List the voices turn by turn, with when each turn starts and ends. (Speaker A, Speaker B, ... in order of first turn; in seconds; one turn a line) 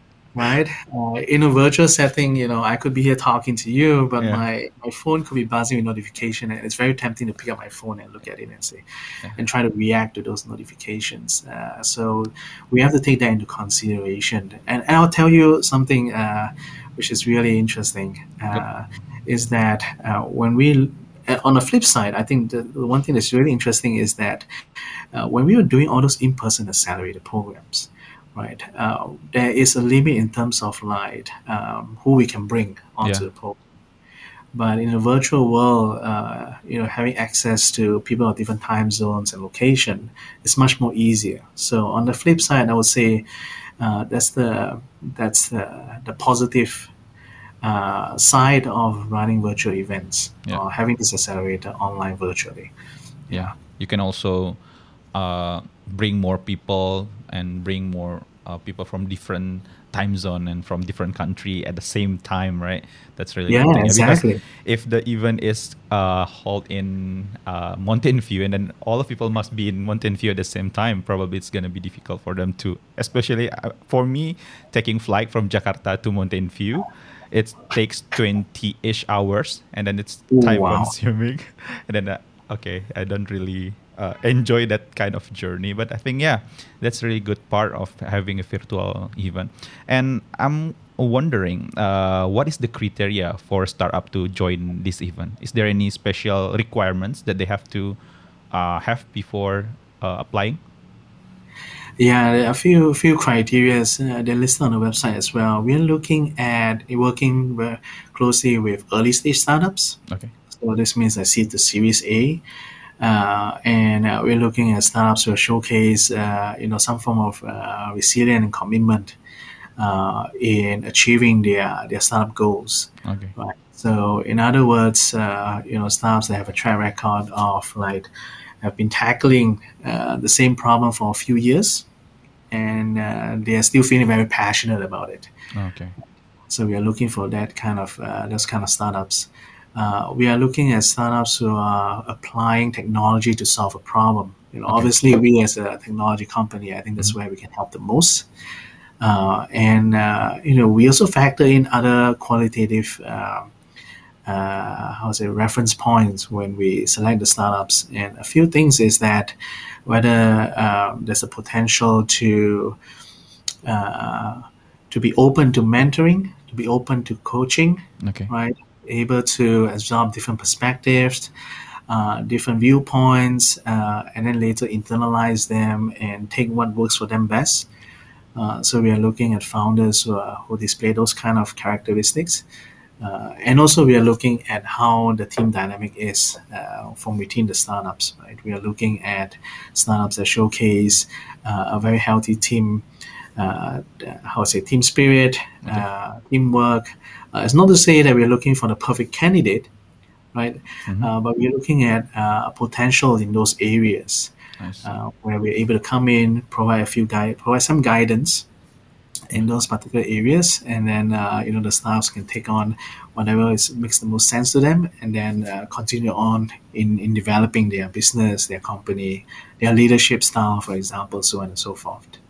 Speaker A: 0.3-24.4
Speaker A: 25.1-33.6
Speaker B: 33.0-33.3
Speaker A: 34.5-43.2
Speaker A: 43.8-46.9
Speaker A: 47.6-52.7
Speaker A: 53.3-53.5
Speaker B: 53.3-54.6
Speaker B: 55.1-98.0
Speaker A: 63.5-64.4
Speaker A: 80.3-80.9
Speaker B: 98.5-100.6
Speaker A: 102.0-112.4
Speaker A: 113.0-119.2
Speaker A: 119.8-128.1
Speaker B: 123.0-123.3
Speaker A: 128.6-131.9
Speaker A: 132.5-135.3
Speaker B: 135.5-135.9
Speaker A: 136.5-148.3
Speaker A: 149.0-153.5
Speaker A: 154.2-159.3
Speaker A: 159.8-162.8
Speaker A: 163.6-171.3
Speaker B: 168.0-168.3
Speaker A: 171.9-177.7
Speaker A: 178.3-182.4
Speaker A: 183.0-192.8
Speaker A: 193.4-199.7
Speaker A: 200.3-208.4
Speaker B: 204.6-204.9
Speaker A: 209.3-222.2